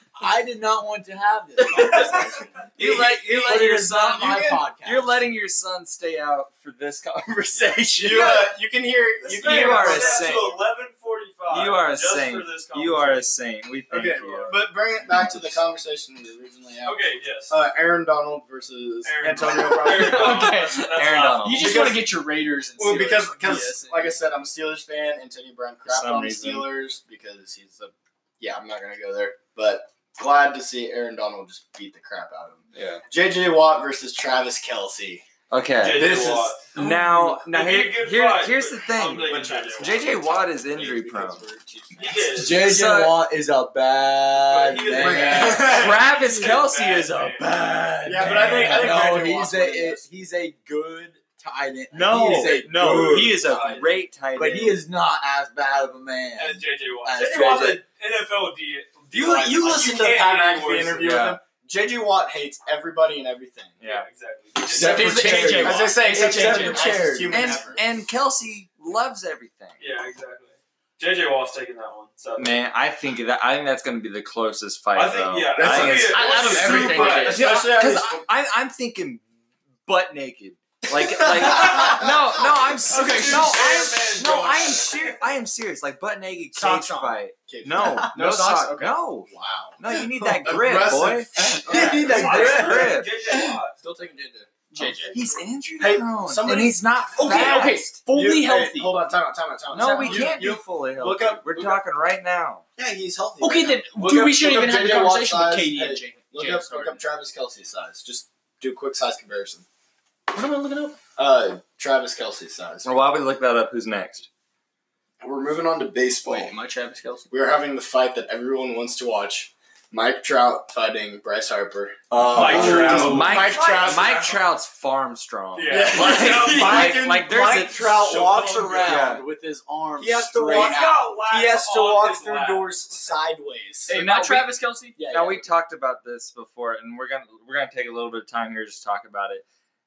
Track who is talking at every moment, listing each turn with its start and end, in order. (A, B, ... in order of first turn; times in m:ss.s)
0:00.2-0:02.3 A
0:01.7-0:04.6 B
0:02.8-0:08.5 C
0:03.4-0:05.2 A
0:08.0-0:10.5 B
0:08.1-0:08.4 D
0:09.2-0:13.4 D
0:09.4-0:10.6 C
0:11.5-0:14.6 C
0:13.9-0:17.0 B
0:16.8-0:17.6 D
0:17.5-0:20.5 B
0:19.0-0:22.0 D
0:19.2-0:21.9 C
0:19.7-0:24.2 E
0:21.6-0:22.1 B
0:22.8-0:35.2 B
0:25.8-0:26.7 C
0:32.7-0:33.0 C
0:35.5-0:41.4 C
0:35.8-0:40.0 D
0:36.0-0:36.5 B
0:39.3-0:42.6 B
0:42.0-0:42.8 D
0:42.3-0:45.9 A
0:42.5-0:43.2 C
0:44.4-0:47.5 D
0:44.9-0:46.1 B
0:45.5-0:49.0 C
0:47.7-0:57.8 A
0:48.0-0:50.0 B
0:51.9-0:54.8 C
0:52.8-0:54.0 D
0:56.4-1:01.2 D
0:59.1-1:03.8 B
1:01.0-1:01.4 C
1:03.8-1:04.1 C
1:03.8-1:05.3 D
1:04.7-1:07.6 A
1:04.7-1:07.0 E
1:04.7-1:07.8 B
1:07.3-1:09.8 C
1:09.8-1:12.6 D
1:12.4-1:16.2 C
1:14.9-1:17.3 D
1:15.6-1:18.3 B
1:16.1-1:17.5 E
1:16.5-1:17.2 A
1:17.2-1:19.2 C
1:19.8-1:33.2 C
1:20.9-1:22.4 B
1:22.9-1:23.8 E
1:22.9-1:25.1 D
1:26.5-1:27.2 E
1:27.5-1:27.9 B
1:28.1-1:29.0 E
1:29.3-1:33.0 B
1:31.4-1:33.6 A
1:31.8-1:33.8 D
1:33.8-1:35.2 B
1:34.7-1:35.1 E
1:35.1-1:37.9 C
1:35.8-1:41.8 B
1:37.2-1:39.0 E
1:39.7-1:42.6 C
1:39.8-1:40.4 E
1:42.8-1:49.6 B
1:43.4-1:47.0 E
1:50.3-1:51.0 E
1:51.2-1:52.9 B
1:52.8-1:54.3 C
1:55.2-1:56.5 B
1:56.2-1:57.3 E
1:57.3-2:04.3 B
2:02.1-2:03.3 A
2:02.3-2:04.4 D
2:02.9-2:07.9 C
2:05.6-2:07.0 D
2:05.7-2:08.9 B
2:07.6-2:10.9 A
2:08.0-2:09.0 D
2:08.8-2:09.2 C
2:10.0-2:14.0 B
2:10.5-2:13.2 D
2:13.9-2:15.0 E
2:13.9-2:19.4 C
2:15.0-2:15.4 B